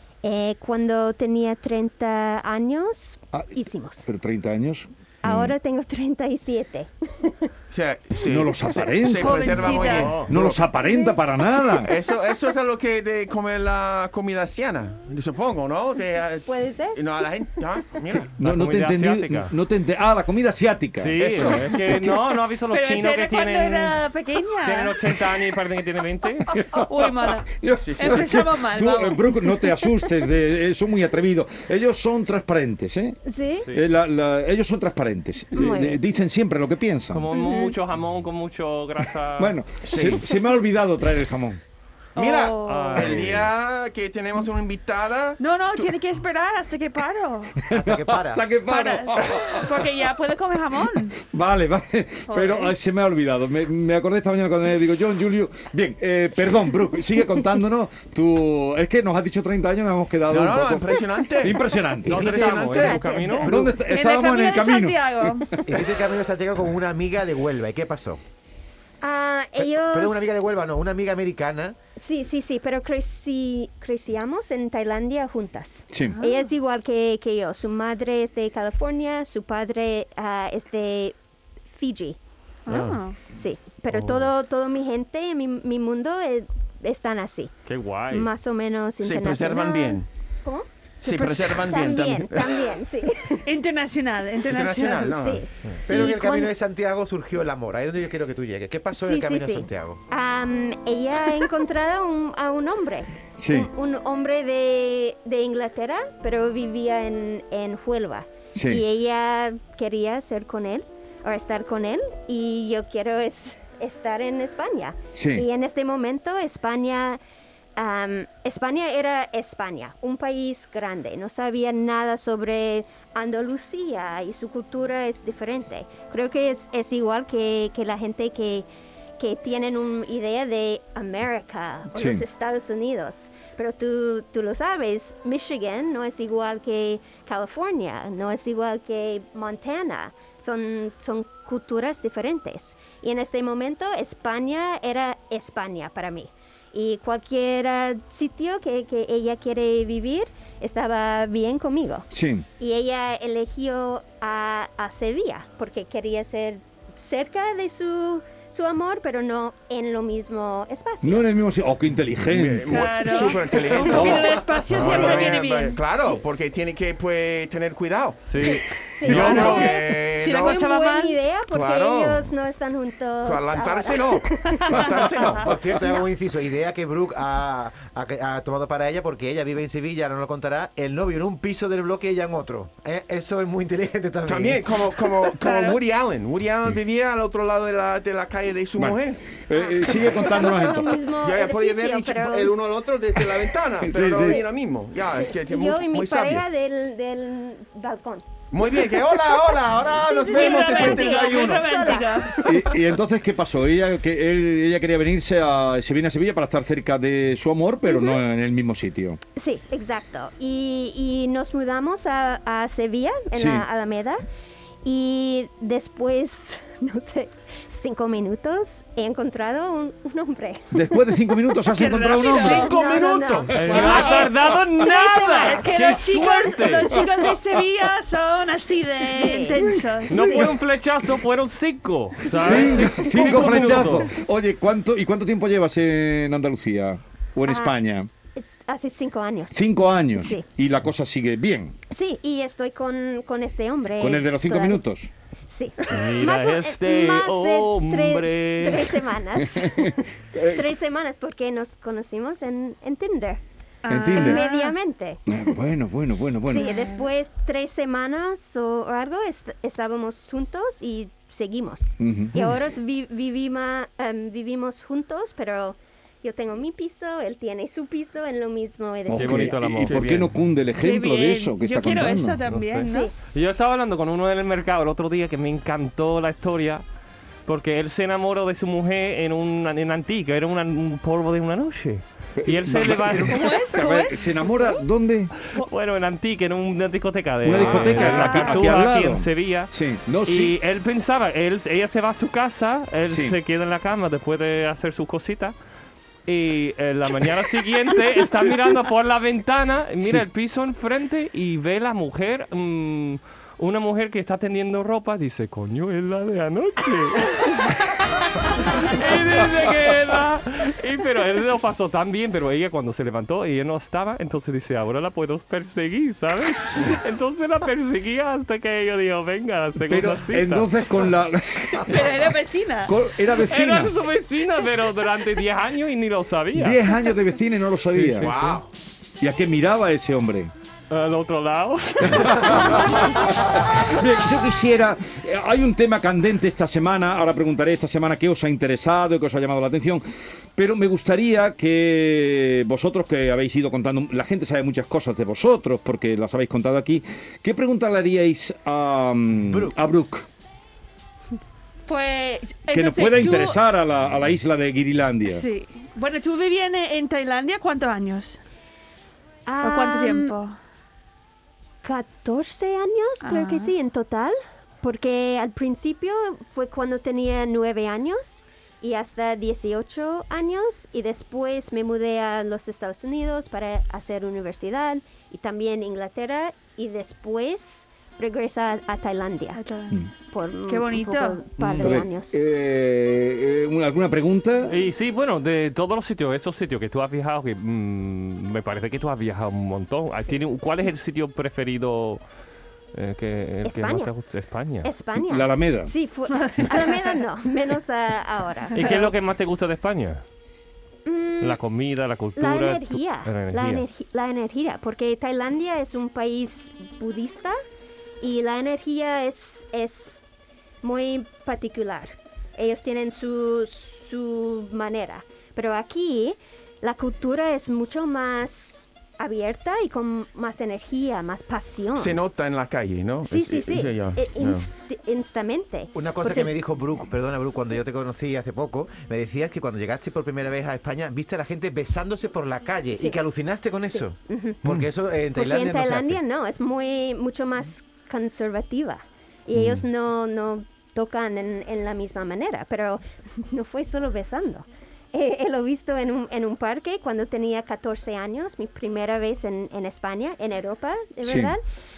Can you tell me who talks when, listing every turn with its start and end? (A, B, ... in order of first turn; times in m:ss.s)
0:00.2-0:04.0 A
0:04.0-0:05.6 B
0:05.2-0:07.5 A
0:07.7-0:10.7 C
0:08.2-0:11.9 B
0:09.1-0:10.2 D
0:09.9-0:10.3 E
0:10.8-0:11.2 A
0:11.7-0:18.3 C
0:16.5-0:17.3 A
0:18.1-0:22.1 B
0:18.4-0:19.5 E
0:21.0-0:24.0 E
0:21.2-0:21.7 C
0:22.7-0:25.0 D
0:24.6-0:26.5 E
0:26.5-0:33.2 B
0:26.7-0:27.5 D
0:27.8-0:28.3 C
0:28.0-0:29.2 D
0:33.2-0:33.7 A
0:33.7-0:37.2 B
0:35.5-0:36.0 A
0:37.1-0:39.6 E
0:37.3-0:37.8 A
0:39.4-0:41.6 B
0:39.8-0:40.3 C
0:42.2-0:43.1 D
0:42.2-0:45.9 C
0:42.7-0:43.5 E
0:45.4-0:47.5 D
0:47.7-0:48.6 F
0:47.7-0:49.9 B
0:48.7-0:51.1 D
0:51.2-1:02.4 B
0:52.3-0:52.7 D
1:00.3-1:03.1 C
1:02.0-1:03.5 E
1:02.0-1:03.8 F
1:02.7-1:03.6 A
1:03.5-1:05.9 B
1:03.9-1:05.5 D
1:05.7-1:08.2 F
1:09.0-1:10.2 A
1:09.6-1:11.8 F
1:12.0-1:21.2 A
1:15.9-1:16.2 B
1:16.1-1:16.5 D
1:21.7-1:22.2 A
1:22.7-1:23.2 D
1:23.3-1:27.5 A
1:23.9-1:24.3 E
1:27.7-1:28.3 E
1:28.1-1:33.5 A
1:29.0-1:30.1 C
1:31.0-1:32.7 C
1:31.1-1:31.4 D
1:33.5-1:35.1 D
1:34.5-1:35.5 C
1:35.0-1:36.5 A
1:35.9-1:40.0 F
1:39.0-1:57.2 A
1:43.4-1:43.7 B
1:48.6-1:48.8 B
1:55.2-1:55.5 B
1:57.8-2:08.7 A
2:09.2-2:32.1 A
2:11.9-2:12.2 B
2:32.1-2:32.5 B
2:32.6-2:41.3 A
2:41.0-2:42.9 B
2:42.2-2:50.6 C
2:42.7-2:45.8 D
2:42.8-2:44.1 A
2:43.9-2:45.2 B
2:48.2-2:48.6 E
2:48.4-2:49.8 A
2:49.1-2:49.5 B
2:49.4-2:51.2 D
2:50.4-2:55.1 A
2:51.5-2:52.3 C
2:53.2-2:55.5 C
2:54.6-2:55.4 D
2:55.4-3:04.6 F
3:04.3-3:09.2 C
3:05.4-3:05.8 D
3:08.8-3:11.0 B
3:09.6-3:12.6 A
3:10.3-3:16.4 C
3:13.8-3:14.4 B
3:14.2-3:14.5 A
3:15.0-3:18.3 A
3:18.5-3:21.8 C
3:18.9-3:22.7 A
3:20.3-3:22.4 D
3:22.4-3:29.2 B
3:27.8-3:28.2 A
3:29.4-3:34.2 A
3:33.4-3:33.6 B
3:34.8-3:41.0 A
3:40.7-3:42.7 B
3:41.7-3:42.7 D
3:42.2-3:45.7 A
3:42.2-3:43.9 C
3:43.5-3:47.0 E
3:43.6-3:44.2 B
3:43.8-3:44.3 D
3:45.4-3:50.5 D
3:49.1-3:50.5 A
3:50.1-3:54.1 E
3:52.3-3:58.1 B
3:53.0-3:53.8 A
3:57.4-3:57.7 A
3:58.4-4:00.4 A
3:59.5-4:01.8 B
4:01.9-4:04.8 A
4:04.0-4:05.1 B
4:05.5-4:13.4 A
4:05.9-4:09.0 E
4:09.4-4:10.6 B
4:13.8-4:14.8 D
4:13.9-4:14.4 B
4:14.1-4:15.6 A
4:15.3-4:16.8 B
4:16.4-4:29.6 A
4:22.0-4:22.6 B
4:29.1-4:32.4 B
4:29.1-4:30.0 E
4:29.6-4:30.3 C
4:30.8-4:33.1 D
4:32.5-4:36.8 E
4:32.9-4:33.1 A
4:37.4-4:43.6 E
4:42.4-4:45.4 B
4:43.2-4:44.8 D
4:45.6-4:49.7 E
4:47.4-4:50.5 B
4:47.6-4:48.5 D
4:50.2-4:55.6 E
4:53.1-4:53.3 B
4:56.3-5:08.2 E
5:08.7-5:20.8 E
5:19.9-5:22.3 B
5:21.9-5:22.9 D
5:22.9-5:23.9 B
5:23.3-5:26.8 E
5:26.6-5:28.5 B
5:27.9-5:28.6 E
5:28.1-5:28.7 C
5:29.2-5:30.5 B
5:30.9-5:33.2 E
5:32.0-5:40.0 B
5:40.6-5:50.3 B
5:49.5-5:49.8 F
5:51.9-5:53.6 D
5:52.7-5:55.4 B
5:55.3-5:58.4 D
5:59.4-6:00.3 A
5:59.6-6:00.6 D
6:01.8-6:19.6 A
6:03.2-6:03.7 D
6:19.5-6:20.0 D
6:20.3-6:22.4 A
6:20.7-6:21.4 D
6:21.6-6:24.8 B
6:24.7-6:32.2 E
6:32.9-6:34.9 E
6:33.6-6:34.1 A
6:34.8-6:39.0 A
6:35.2-6:35.9 B
6:38.8-6:40.2 E
6:38.8-6:39.1 D
6:41.0-6:41.6 A
6:41.4-6:43.9 E
6:42.4-6:47.6 A
6:48.2-6:50.2 A
6:50.8-7:02.2 A
7:01.9-7:04.7 C
7:03.3-7:06.6 A
7:05.9-7:16.2 F
7:13.9-7:14.6 A
7:15.3-7:31.6 A
7:31.3-7:31.5 B